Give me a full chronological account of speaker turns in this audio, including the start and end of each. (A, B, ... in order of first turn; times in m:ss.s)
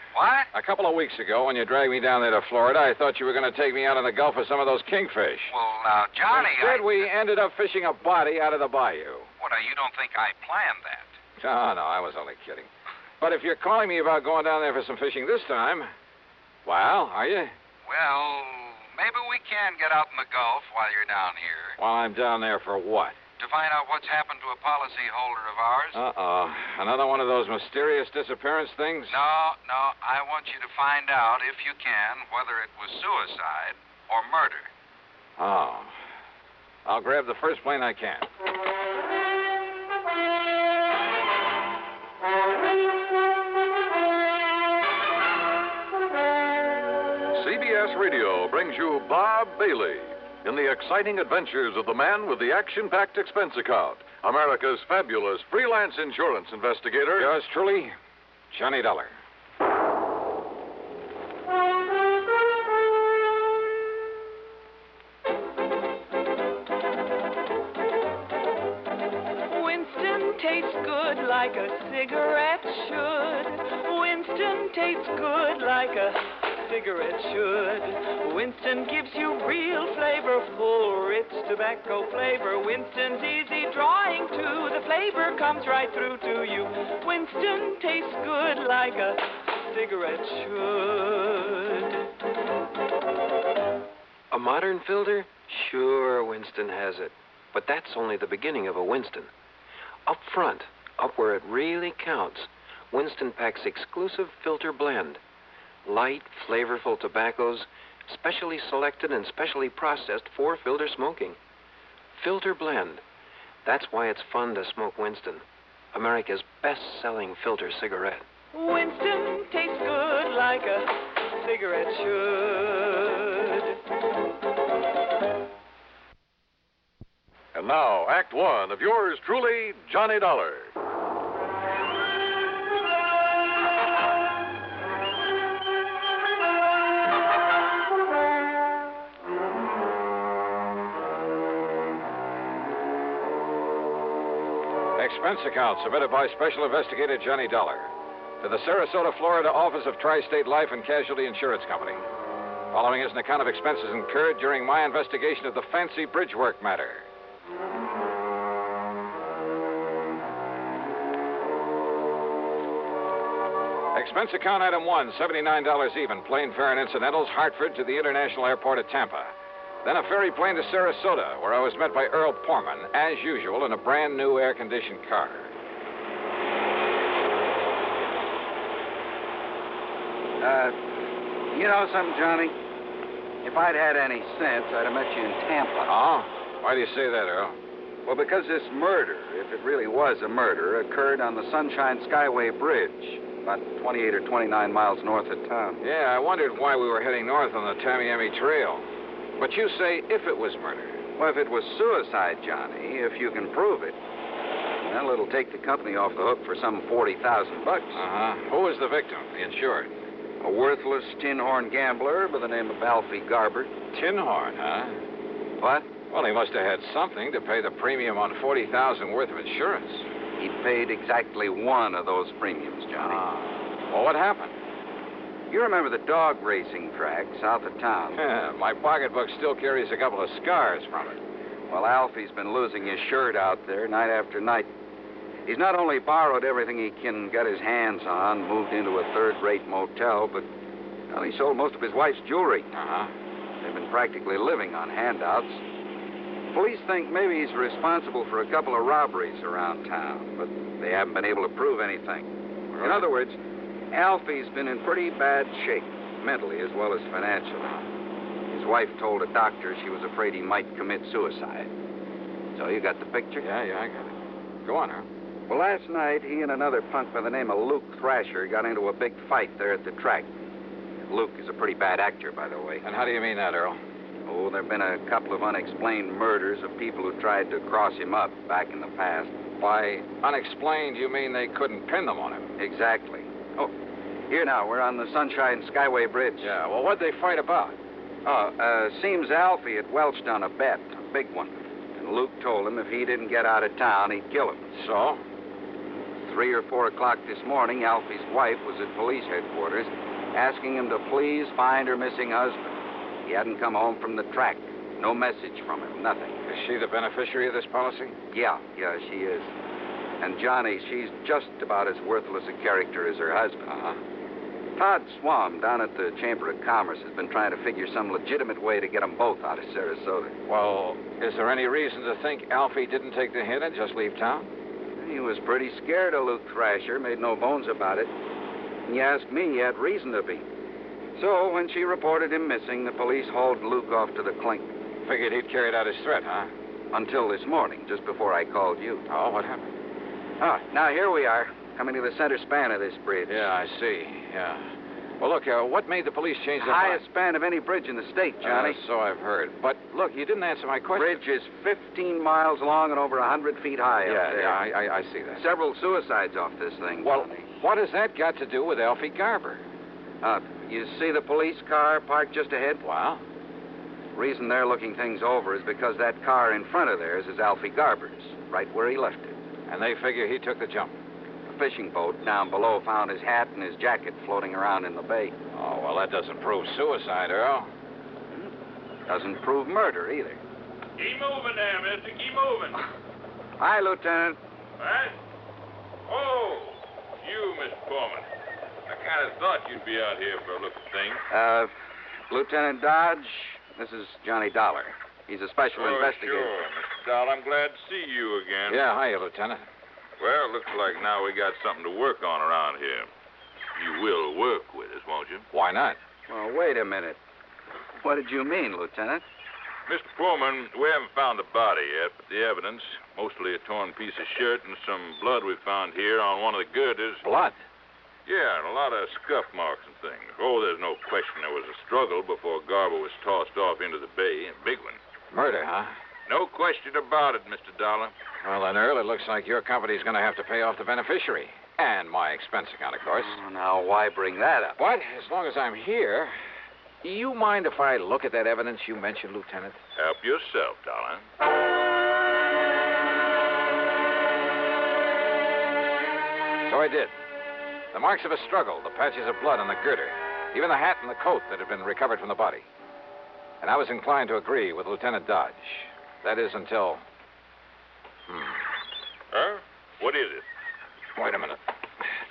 0:00.1-0:00.5 A
0:00.5-0:05.5 B
0:05.5-0:07.0 A
0:06.3-0:09.3 B
0:09.4-0:11.1 A
0:11.4-0:12.7 B
0:13.2-0:15.9 B
0:16.6-0:17.5 B
0:17.8-0:21.8 A
0:21.8-0:23.2 B
0:23.4-0:26.0 A
0:25.9-0:29.2 B
0:29.1-0:34.7 A
0:35.4-0:36.0 B
0:36.8-0:38.3 B
0:47.3-0:57.3 C
0:57.2-0:57.9 B
0:58.5-0:59.1 B
1:09.5-1:31.9 D
1:34.3-1:39.3 E
1:40.0-1:45.2 E
1:45.8-1:51.4 E
1:52.1-1:53.0 E
1:53.6-1:58.2 E
1:58.5-2:03.7 D
2:07.5-2:10.7 C
2:24.9-2:32.0 B
2:32.7-2:37.0 B
2:43.9-2:55.5 B
3:00.4-3:02.5 A
3:03.4-3:05.9 A
3:05.9-3:07.6 B
3:08.0-3:15.8 A
3:15.8-3:21.0 B
3:21.2-3:24.0 A
3:24.8-3:28.0 A
3:27.9-3:29.9 B
3:30.4-3:33.7 A
3:33.9-3:35.0 B
3:35.6-3:35.9 A
3:36.1-3:40.0 B
3:40.4-3:43.2 A
3:43.0-3:44.6 B
3:45.5-3:48.2 A
3:48.2-3:51.2 B
3:51.7-3:54.7 A
3:55.4-4:00.5 A
4:01.1-4:02.7 A
4:02.7-4:03.1 B
4:03.6-4:05.6 A
4:06.5-4:12.2 A
4:12.7-4:13.1 B
4:12.8-4:13.4 A
4:13.9-4:17.8 A
4:18.5-4:21.7 A
4:22.5-4:23.4 A
4:23.4-4:25.1 B
4:25.5-4:30.3 A
4:31.1-4:32.8 A
4:32.8-4:33.8 B
4:34.2-4:39.4 A
4:39.6-4:42.5 B
4:42.6-4:43.7 A
4:44.3-4:46.5 A
4:46.4-4:47.8 B
4:48.2-4:54.7 A
4:54.7-4:55.2 B
4:56.2-5:02.7 A
5:03.2-5:06.4 A
5:06.5-5:08.2 B
5:08.3-5:09.5 A
5:10.2-5:13.9 A
5:14.8-5:20.4 A
5:20.5-5:24.5 B
5:25.0-5:28.1 A
5:28.8-5:30.4 A
5:31.2-5:34.7 A
5:35.0-5:36.5 B
5:36.9-5:39.0 A
5:39.1-5:39.7 B
5:40.4-5:43.5 A
5:43.3-5:47.0 B
5:46.6-5:48.8 A
5:48.4-5:51.2 B
5:50.9-5:54.6 A
5:54.0-5:55.4 B
5:55.3-5:57.5 A
5:57.0-5:59.6 B
6:00.2-6:02.8 A
6:02.8-6:03.2 B
6:04.1-6:09.4 A
6:09.7-6:10.9 B
6:11.5-6:15.3 A
6:15.5-6:17.7 B
6:19.1-6:20.4 A
6:21.0-6:22.8 F
6:23.6-6:24.4 A
6:24.8-6:25.2 F
6:26.1-6:28.3 F
6:28.9-6:31.2 F
6:31.3-6:31.7 A
6:32.3-6:36.5 A
6:35.8-6:38.8 F
6:38.7-6:39.6 B
6:40.2-6:43.1 F
6:43.8-6:45.4 F
6:45.5-6:46.0 B
6:46.3-6:47.2 A
6:48.0-6:49.2 A
6:49.9-6:57.2 F
6:57.2-6:57.6 B
6:58.2-7:05.0 F
7:05.3-7:05.9 B
7:06.3-7:08.1 F
7:08.4-7:13.4 B
7:13.1-7:14.8 A
7:14.8-7:16.4 B
7:17.0-7:19.8 B
7:20.0-7:21.2 F
7:26.6-7:27.1 B
7:27.9-7:32.7 B
7:33.6-7:37.0 B
7:38.3-7:38.6 B
7:39.3-7:40.4 F
7:41.1-7:42.1 B